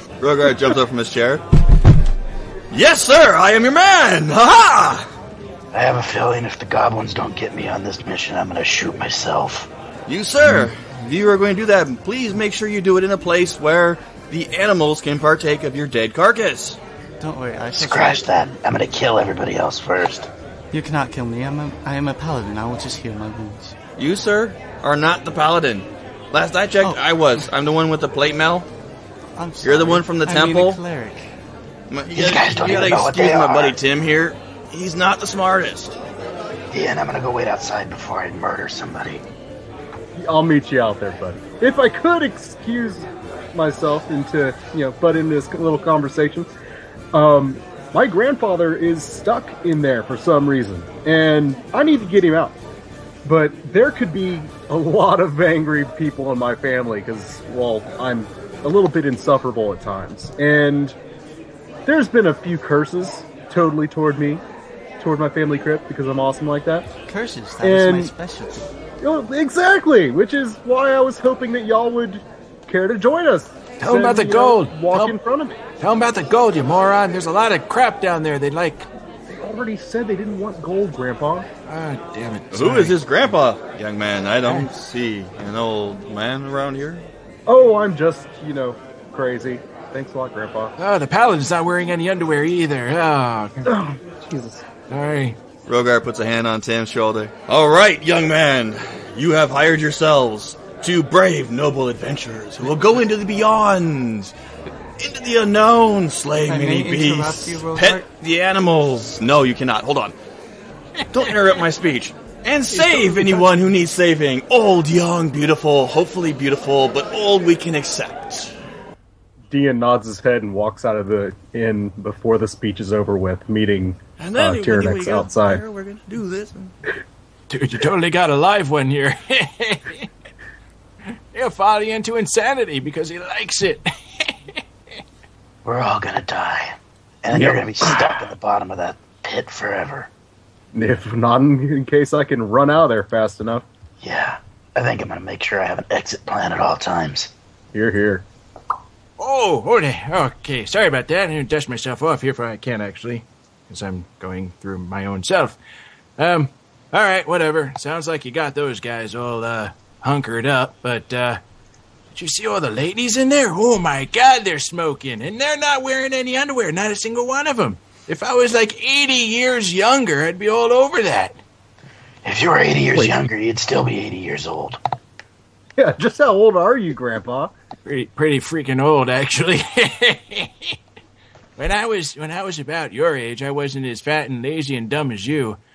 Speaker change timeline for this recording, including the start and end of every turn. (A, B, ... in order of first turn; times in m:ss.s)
0:00.2-0:01.4 A
0:02.7-0:05.1 A
0:05.7-0:09.7 B
0:10.1-0:16.8 A
0:17.2-0:18.3 C
0:17.7-0:20.3 B
0:20.7-0:23.8 C
0:24.0-0:28.7 A
0:26.8-0:27.4 C
0:29.3-0:31.3 C
0:29.6-0:30.8 A
0:31.9-0:35.9 A
0:32.1-0:33.8 B
0:36.7-0:39.2 B
0:40.1-0:46.5 D
0:47.1-0:52.6 D
0:53.2-1:01.0 D
1:01.9-1:04.4 D
1:05.0-1:06.9 D
1:07.1-1:08.7 C
1:07.6-1:08.1 D
1:09.0-1:15.6 D
1:13.8-1:15.2 E
1:15.8-1:18.9 E
1:19.3-1:21.5 D
1:21.7-1:23.0 E
1:22.5-1:27.1 A
1:27.5-1:30.7 D
1:30.8-1:33.7 E
1:33.6-1:34.6 D
1:34.9-1:35.4 E
1:35.7-1:44.3 A
1:45.0-1:50.2 A
1:46.4-1:48.1 C
1:51.1-1:58.5 A
1:52.7-1:53.4 E
1:59.5-2:05.6 D
2:04.2-2:06.7 A
2:07.5-2:10.1 E
2:11.3-2:14.6 E
2:15.6-2:20.1 B
2:17.3-2:18.0 D
2:20.7-2:23.6 D
2:24.0-2:27.3 B
2:27.7-2:28.2 D
2:29.2-2:35.6 E
2:36.2-2:41.4 E
2:42.1-2:51.4 E
2:52.2-2:54.8 B
2:55.8-2:57.5 D
2:57.8-3:00.8 E
3:01.6-3:05.6 E